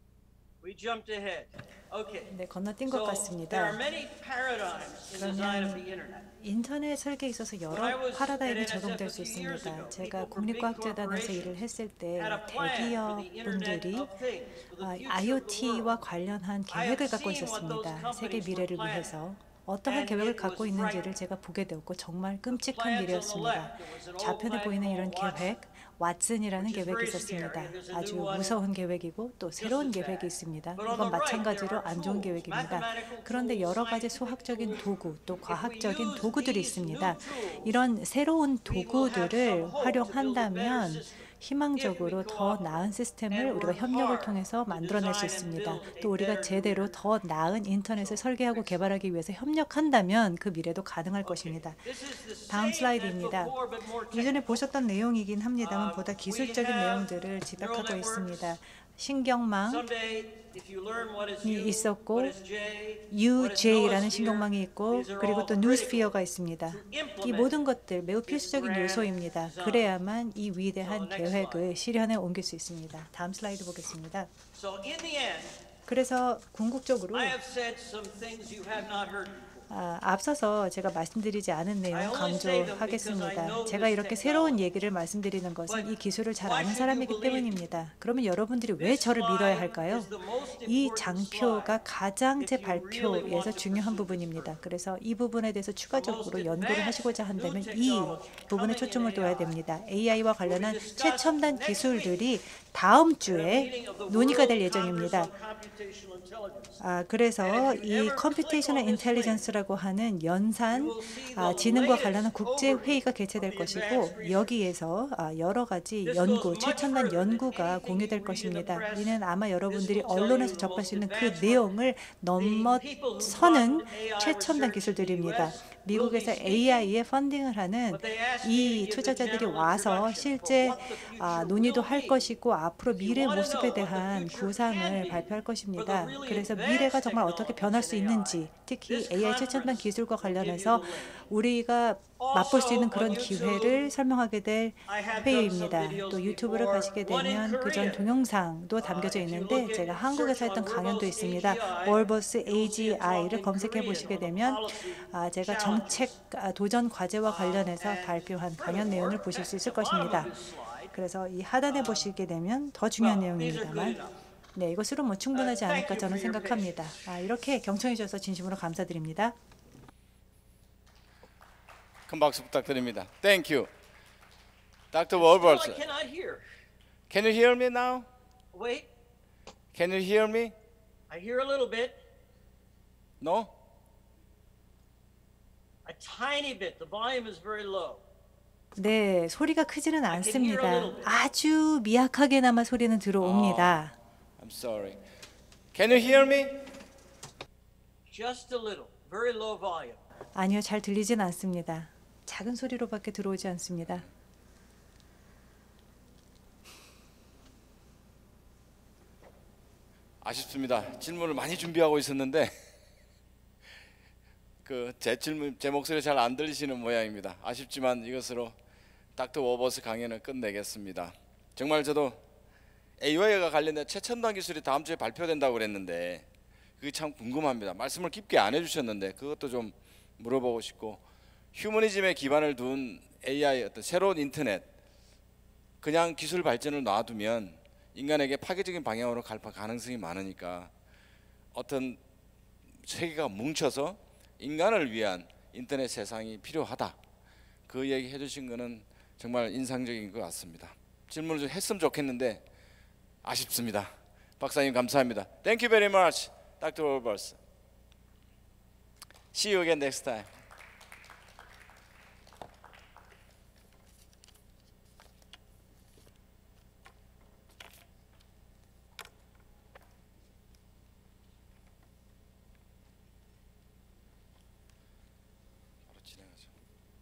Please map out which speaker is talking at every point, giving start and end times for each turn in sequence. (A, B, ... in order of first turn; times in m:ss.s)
0:00.6-0:02.3 A
0:02.3-0:03.8 B
0:02.8-0:06.3 A
0:05.1-0:05.8 B
0:06.4-0:14.1 B
0:07.7-0:11.5 A
0:12.2-0:16.0 A
0:14.8-0:51.9 B
0:16.7-0:19.1 A
0:19.8-0:21.1 A
0:22.5-0:25.6 A
0:26.6-0:28.6 A
0:29.6-0:37.7 A
0:38.6-0:41.2 A
0:41.8-0:47.0 A
0:48.0-0:48.8 A
0:51.2-0:54.6 A
0:52.5-0:53.5 B
0:54.1-0:59.9 B
0:55.6-0:58.4 A
0:59.7-1:06.2 A
1:01.4-1:02.4 B
1:03.1-1:14.3 B
1:06.7-1:07.5 A
1:08.3-1:09.9 A
1:10.8-1:11.7 A
1:14.5-1:15.5 A
1:15.8-1:17.4 B
1:17.1-1:19.6 A
1:19.7-1:30.1 B
1:21.9-1:24.6 A
1:25.7-1:27.6 A
1:28.8-1:31.8 A
1:30.6-1:45.3 B
1:32.4-1:34.5 A
1:35.9-1:39.5 A
1:40.4-1:42.3 A
1:43.2-1:46.8 A
1:46.8-2:40.3 B
1:47.4-1:49.4 A
1:50.7-1:54.6 A
1:56.0-1:59.1 A
1:59.7-2:01.7 A
2:02.4-2:06.9 A
2:07.9-2:12.3 A
2:13.0-2:21.2 A
2:22.2-2:23.8 A
2:24.9-2:28.0 A
2:28.8-2:36.1 A
2:37.2-2:40.9 A
2:40.9-2:44.0 B
2:41.7-2:42.1 A
2:43.0-2:44.1 A
2:44.5-2:49.3 B
2:45.3-2:46.8 A
2:52.1-2:53.7 C
2:54.9-2:55.8 C
2:55.2-2:56.4 A
2:57.1-2:58.1 C
2:58.5-2:58.9 A
2:59.7-3:00.5 C
3:01.1-3:02.0 A
3:03.2-3:03.5 C
3:05.8-3:08.0 A
3:08.8-3:13.9 B
3:10.1-3:11.1 A
3:13.2-3:13.8 C
3:14.4-3:15.0 C
3:15.7-3:16.5 C
3:18.1-3:20.0 A
3:20.3-3:24.0 B
3:30.2-3:32.5 C
3:34.6-3:38.6 C
3:39.2-3:42.2 C
3:43.0-3:46.2 C
3:46.8-3:51.0 C
3:51.5-3:54.7 C
3:55.8-4:00.7 C
4:01.5-4:02.0 C
4:02.8-4:07.0 C
4:07.7-4:12.4 C
4:13.2-4:17.4 C
4:19.3-4:20.3 C
4:35.9-4:36.5 C